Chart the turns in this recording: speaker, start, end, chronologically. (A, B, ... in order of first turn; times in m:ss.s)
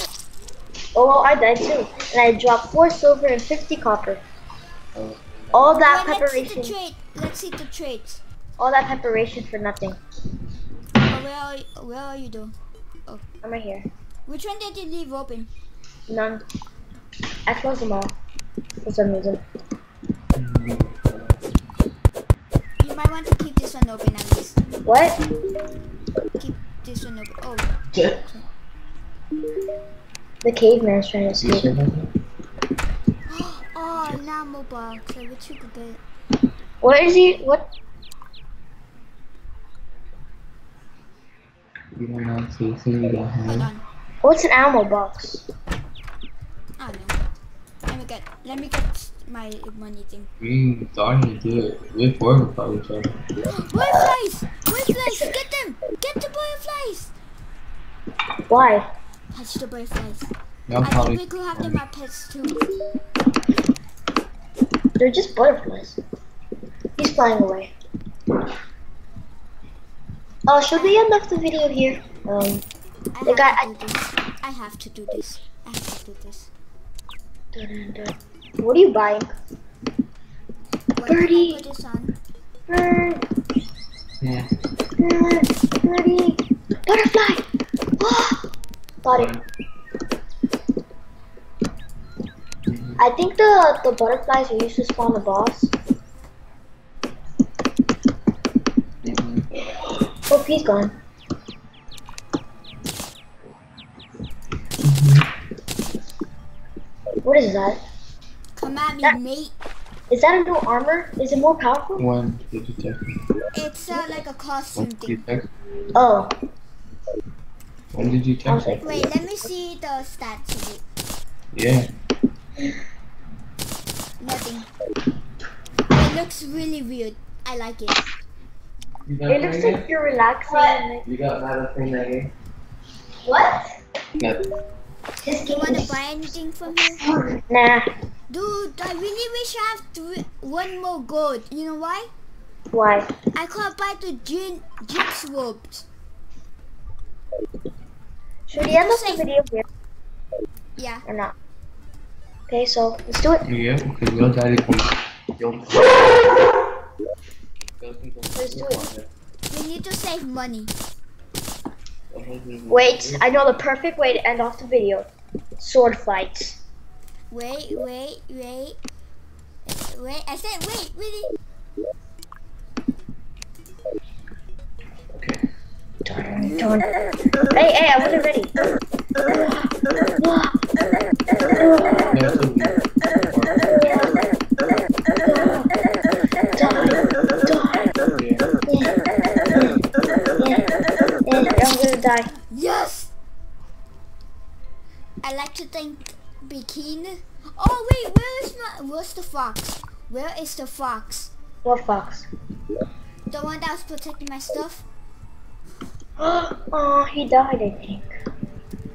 0:01.0-0:04.2 A
0:05.0-0:05.8 B
0:05.5-0:06.8 A
0:05.8-0:08.2 C
0:08.6-0:10.0 A
0:11.1-0:12.5 C
0:13.4-0:13.9 A
0:14.3-0:15.5 C
0:16.1-0:16.4 A
0:17.5-0:18.1 A
0:18.8-0:19.4 A
0:20.4-0:21.5 B
0:22.8-0:24.6 C
0:24.8-0:25.2 A
0:26.4-0:28.4 C
0:30.4-0:31.7 A
0:31.4-0:32.1 B
0:33.3-0:36.0 C
0:36.8-0:37.7 A
0:42.0-0:43.7 B
0:43.5-0:43.8 C
0:44.2-0:45.4 A
0:46.8-0:47.2 C
0:47.9-0:50.3 C
0:50.4-0:53.2 B
0:53.5-0:57.1 C
0:55.1-0:55.3 A
0:58.5-0:58.9 A
0:59.3-1:02.7 C
1:00.7-1:01.8 B
1:05.0-1:06.0 A
1:07.0-1:07.7 A
1:10.5-1:12.6 A
1:13.1-1:16.5 C
1:13.3-1:13.7 A
1:17.5-1:19.3 A
1:21.0-1:22.1 C
1:21.0-1:21.6 A
1:22.7-1:23.2 A
1:24.2-1:24.5 B
1:25.0-1:27.4 A
1:28.0-1:28.5 A
1:29.0-1:29.3 A
1:29.1-1:29.4 B
1:32.7-1:33.0 B
1:33.0-1:35.7 A
1:39.0-1:39.5 B
1:40.3-1:41.0 A
1:44.8-1:45.3 B
1:47.2-1:47.8 A
1:48.6-1:49.5 C
1:50.1-1:52.1 A
1:52.0-1:53.0 B
1:53.5-1:55.2 C
1:54.8-1:55.5 B
1:56.0-1:56.3 A
1:57.9-1:58.8 B
1:58.5-1:59.1 A
1:58.8-2:00.8 C
2:01.5-2:01.9 B
2:04.2-2:04.7 C
2:05.9-2:08.0 C
2:09.1-2:09.9 B
2:09.3-2:11.0 A
2:11.0-2:12.3 B
2:14.2-2:14.4 B
2:15.2-2:16.0 A
2:15.5-2:17.0 C
2:17.0-2:17.9 A
2:18.3-2:22.1 C
2:22.7-2:23.1 A
2:23.3-2:25.9 C
2:28.5-2:29.6 A
2:28.6-2:29.2 C
2:30.8-2:31.0 C
2:31.1-2:31.3 A
2:32.5-2:33.5 A
2:33.5-2:36.3 B
2:37.8-2:39.1 B
2:38.4-2:38.9 A
2:39.5-2:40.7 C
2:42.1-2:43.3 B
2:42.7-2:45.1 A
2:45.6-2:46.6 A
2:47.3-2:48.8 C
2:49.7-2:51.3 C
2:55.1-2:55.4 B
2:56.0-2:56.9 A
2:57.5-2:58.6 A
2:59.3-2:59.7 A
3:00.2-3:00.6 A
3:01.5-3:02.2 A
3:02.1-3:04.2 B
3:03.8-3:04.2 A
3:05.2-3:05.7 A
3:06.6-3:07.9 A
3:08.0-3:08.5 B
3:08.7-3:09.0 A
3:09.5-3:09.8 A
3:10.4-3:12.3 A
3:12.3-3:13.1 C
3:15.2-3:21.3 C
3:21.6-3:22.3 A
3:23.3-3:24.8 C
3:26.2-3:28.1 A